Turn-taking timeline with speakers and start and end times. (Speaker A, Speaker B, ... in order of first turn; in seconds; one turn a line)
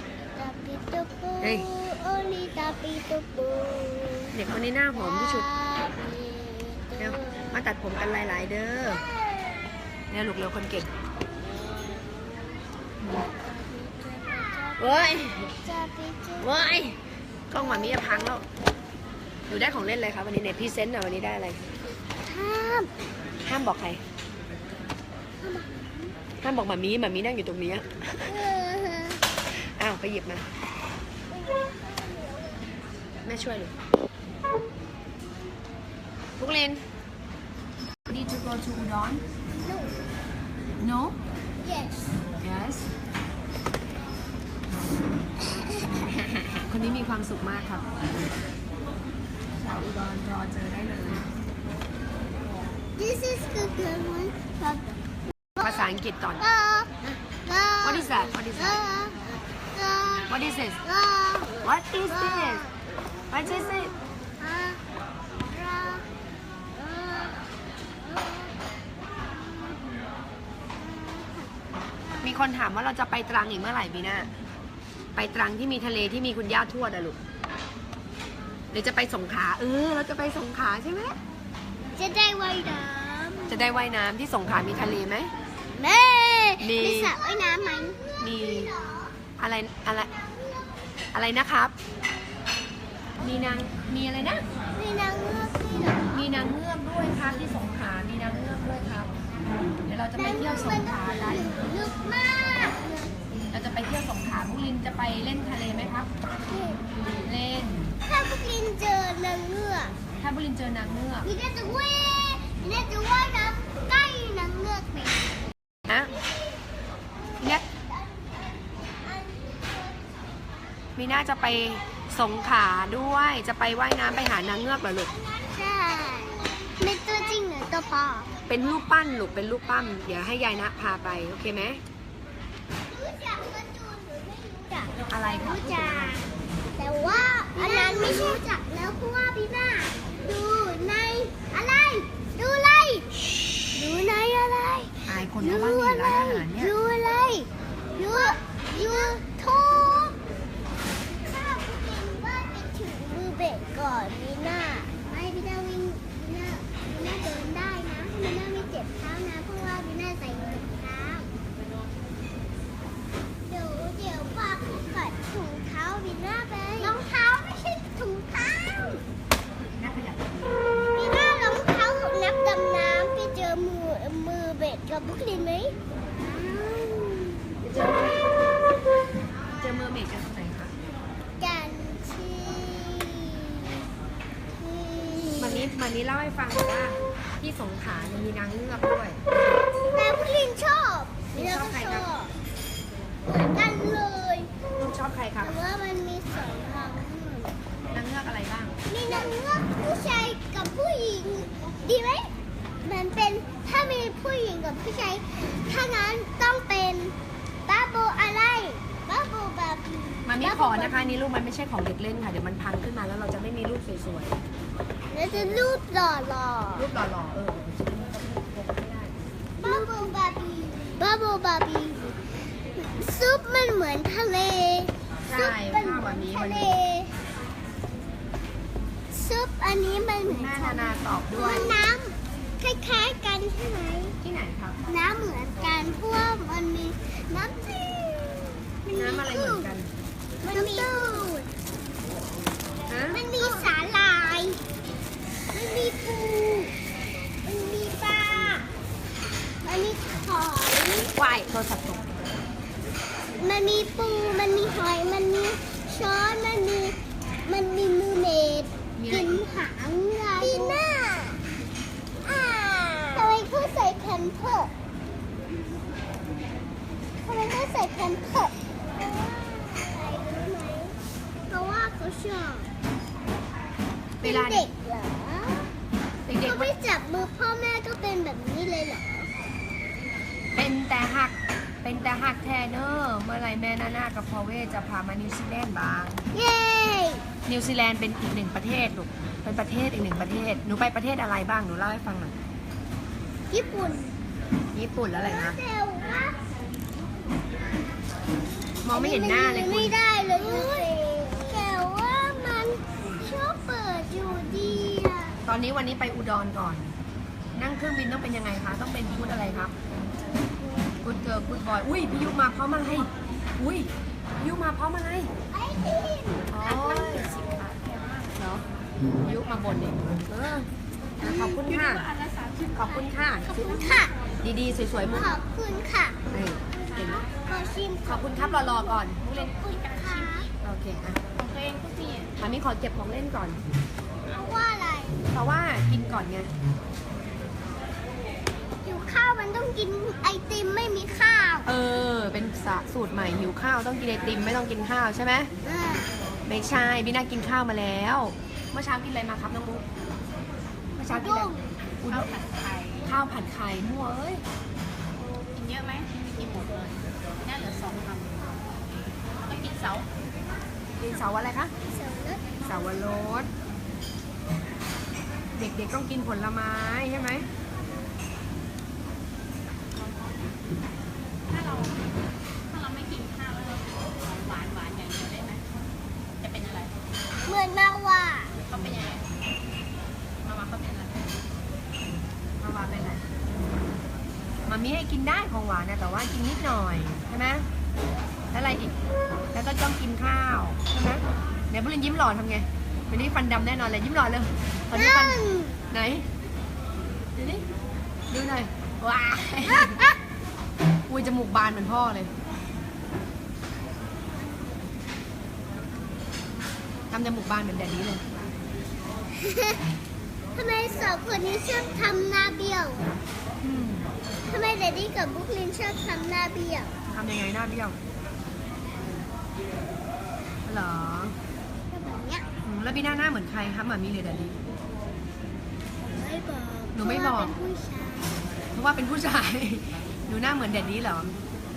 Speaker A: 0.3-7.6
Speaker B: 1.4-1.6
Speaker B: 4.3-5.5
Speaker B: 7.0-9.0
Speaker A: 8.9-9.8
Speaker B: 10.1-10.9
Speaker A: 11.3-16.6
Speaker B: 14.8-15.5
Speaker B: 16.4-17.0
Speaker B: 17.5-18.4
Speaker A: 17.5-18.4
Speaker B: 19.5-21.6
Speaker A: 22.2-22.9
Speaker B: 23.4-24.0
Speaker A: 25.4-26.1
Speaker B: 26.4-28.3
Speaker A: 28.2-29.2
Speaker B: 29.5-30.4
Speaker A: 31.3-32.6
Speaker B: 33.2-33.7
Speaker B: 36.4-36.8
Speaker B: 38.1-39.2
Speaker A: 39.5-39.9
Speaker B: 40.8-41.2
Speaker A: 41.6-42.1
Speaker B: 42.4-42.9
Speaker A: 45.4-46.1
Speaker B: 46.7-47.8
Speaker B: 49.6-51.3
Speaker A: 53.0-55.0
Speaker A: 55.5-56.9
Speaker B: 55.6-56.4
Speaker A: 57.4-62.8
Speaker B: 57.8-58.8
Speaker B: 60.3-60.8
Speaker B: 61.6-62.6
Speaker B: 63.3-63.9
Speaker A: 63.4-64.8
Speaker A: 65.5-66.0
Speaker A: 66.7-68.6
Speaker A: 69.3-69.8
Speaker A: 70.8-71.5
Speaker A: 72.0-72.5
Speaker B: 72.2-74.3
Speaker B: 75.1-77.2
Speaker B: 78.7-81.2
Speaker A: 82.0-83.8
Speaker B: 83.5-85.3
Speaker A: 85.7-89.2
Speaker B: 86.6-87.1
Speaker B: 88.2-88.7
Speaker B: 89.4-90.1
Speaker A: 90.1-90.9
Speaker B: 91.1-91.7
Speaker B: 93.2-94.4
Speaker A: 93.2-93.5
Speaker A: 94.7-96.2
Speaker B: 96.1-99.1
Speaker B: 99.8-101.5
Speaker A: 100.1-103.1
Speaker B: 103.5-106.1
Speaker A: 106.5-106.8
Speaker B: 107.0-107.9
Speaker A: 108.0-109.9
Speaker B: 110.2-111.3
Speaker A: 111.2-115.3
Speaker B: 115.9-116.1
Speaker A: 117.1-120.2
Speaker B: 121.0-125.1
Speaker A: 125.0-128.3
Speaker B: 128.5-131.8
Speaker A: 132.9-136.2
Speaker B: 135.1-136.2
Speaker A: 136.8-150.2
Speaker B: 137.9-138.4
Speaker B: 145.1-146.7
Speaker B: 148.8-149.1
Speaker A: 151.2-161.3
Speaker A: 163.4-169.0
Speaker B: 169.8-170.7
Speaker A: 170.9-178.1
Speaker B: 177.6-178.2
Speaker B: 179.6-180.7
Speaker A: 181.4-183.8
Speaker A: 184.6-185.7
Speaker B: 185.4-189.2
Speaker A: 189.9-192.3
Speaker B: 191.3-192.1
Speaker A: 193.2-194.5
Speaker B: 194.8-195.6
Speaker A: 195.4-197.5
Speaker B: 197.9-199.3
Speaker A: 198.9-202.3
Speaker A: 202.8-207.1
Speaker A: 207.7-211.2
Speaker B: 210.2-214.4
Speaker A: 215.1-216.9
Speaker B: 215.3-215.7
Speaker B: 216.8-219.9
Speaker A: 219.6-222.2
Speaker A: 222.7-227.1
Speaker B: 225.3-226.8
Speaker A: 229.1-234.2
Speaker B: 230.2-231.8
Speaker B: 234.2-234.8
Speaker A: 234.9-239.7
Speaker B: 238.9-239.9
Speaker A: 240.4-241.5
Speaker B: 240.4-241.2
Speaker B: 242.9-243.6
Speaker A: 243.1-244.6
Speaker A: 245.5-246.7
Speaker A: 247.4-248.7
Speaker A: 249.6-251.1
Speaker B: 251.1-252.0
Speaker A: 253.4-261.4
Speaker B: 259.0-259.4
Speaker A: 262.2-264.7
Speaker A: 267.2-270.9
Speaker A: 271.5-272.7
Speaker B: 274.2-274.7
Speaker A: 274.2-275.7
Speaker B: 276.2-276.7
Speaker A: 276.4-279.3
Speaker B: 280.5-286.2
Speaker A: 286.3-287.2
Speaker B: 287.4-292.3
Speaker A: 293.5-294.1
Speaker B: 294.7-295.6
Speaker A: 295.1-296.4
Speaker B: 298.8-300.0
Speaker A: 298.9-305.4
Speaker B: 305.4-306.9
Speaker B: 307.6-309.7
Speaker A: 310.6-310.9
Speaker B: 311.0-315.3
Speaker A: 315.5-316.8
Speaker B: 316.5-317.3
Speaker C: 316.6-318.4
Speaker B: 318.3-318.6
Speaker B: 319.2-320.7
Speaker B: 321.2-322.1
Speaker A: 321.2-321.6
Speaker C: 321.7-322.9
Speaker B: 322.7-325.4
Speaker A: 323.4-324.1
Speaker A: 325.0-326.2
Speaker B: 326.3-327.2
Speaker C: 326.8-327.3
Speaker A: 327.4-330.5
Speaker B: 328.0-329.3
Speaker C: 329.8-330.5
Speaker B: 330.6-331.2
Speaker C: 331.4-332.3
Speaker B: 332.4-333.6
Speaker A: 334.3-335.2
Speaker B: 335.3-336.5
Speaker A: 338.8-341.7
Speaker B: 341.6-345.5
Speaker A: 345.6-346.1
Speaker B: 346.4-349.8
Speaker B: 351.0-352.3
Speaker A: 351.1-351.6
Speaker C: 352.0-353.1
Speaker B: 353.0-354.4
Speaker C: 355.5-358.5
Speaker C: 359.4-360.1
Speaker B: 361.0-361.7
Speaker A: 361.9-362.5
Speaker B: 362.6-363.5
Speaker B: 365.5-367.5
Speaker C: 369.9-370.4
Speaker C: 371.5-372.0
Speaker C: 372.7-375.6
Speaker C: 376.4-376.9
Speaker A: 377.4-378.5
Speaker C: 378.6-379.2
Speaker C: 380.4-381.4
Speaker B: 382.6-383.2
Speaker B: 384.6-387.6
Speaker B: 388.5-388.9
Speaker B: 389.5-396.2
Speaker A: 394.9-395.8
Speaker B: 397.4-397.6
Speaker B: 398.3-400.0
Speaker B: 401.1-402.3
Speaker B: 407.1-408.2
Speaker A: 409.4-409.8
Speaker A: 410.6-413.1
Speaker B: 413.6-414.1
Speaker A: 414.5-416.9
Speaker B: 417.1-417.9
Speaker B: 420.6-421.4
Speaker A: 421.9-422.5
Speaker B: 422.6-424.6
Speaker A: 426.1-428.4
Speaker B: 426.9-427.5
Speaker B: 428.7-431.4